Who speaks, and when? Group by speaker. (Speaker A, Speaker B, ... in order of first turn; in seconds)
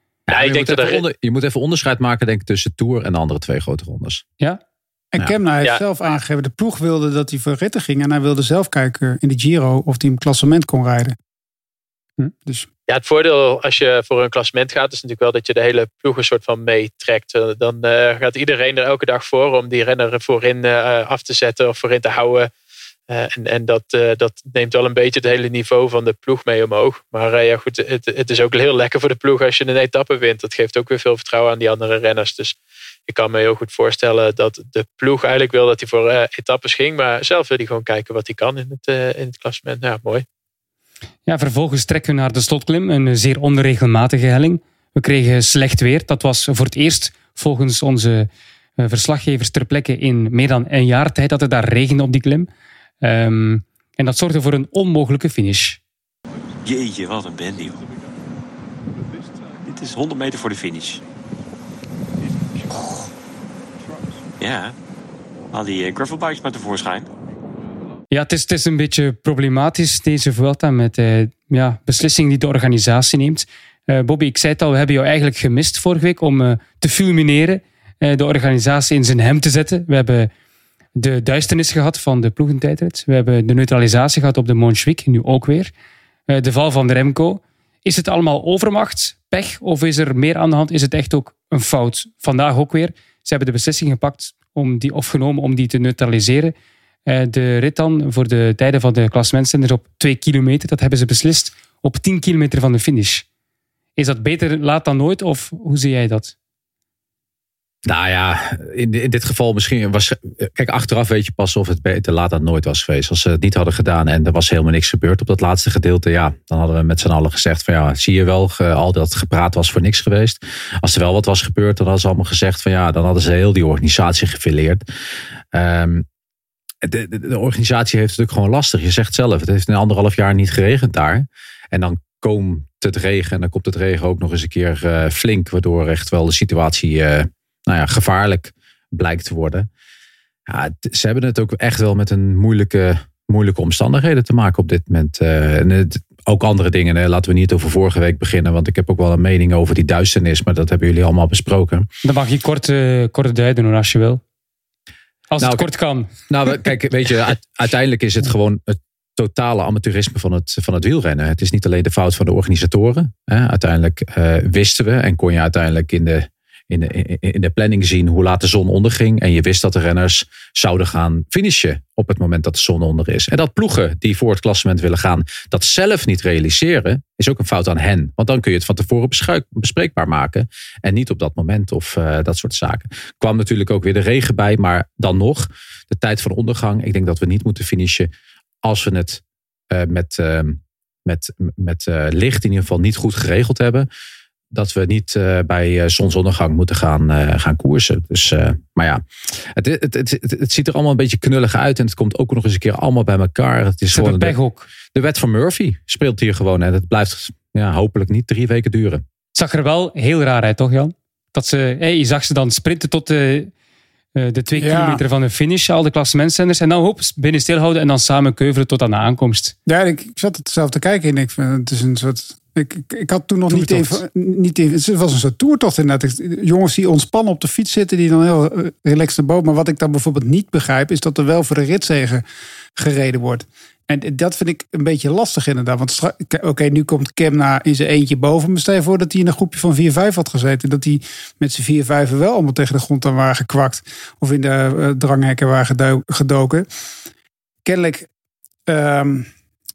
Speaker A: 0.3-4.2, 107.9-124.8, 125.5-126.1, 126.8-139.7, 140.5-151.9, 155.4-155.7, 156.3-188.1, 188.6-193.9, 194.5-199.0, 199.5-204.4, 204.9-209.0
Speaker B: 0.3-1.0, 12.9-22.5, 23.1-32.6, 33.1-40.2
Speaker C: 5.1-11.2, 214.6-215.0, 219.7-232.2, 232.8-246.7, 247.7-248.1, 248.7-249.3
Speaker D: 41.3-52.5, 53.0-55.8, 68.1-80.3, 81.0-85.7, 86.3-96.5, 97.1-103.2, 104.0-106.3, 152.0-154.2, 155.3-156.1, 203.9-204.7, 209.3-213.5, 214.2-219.6, 223.5-224.0
Speaker E: 56.6-57.9, 59.6-61.0, 64.4-64.8, 65.5-67.1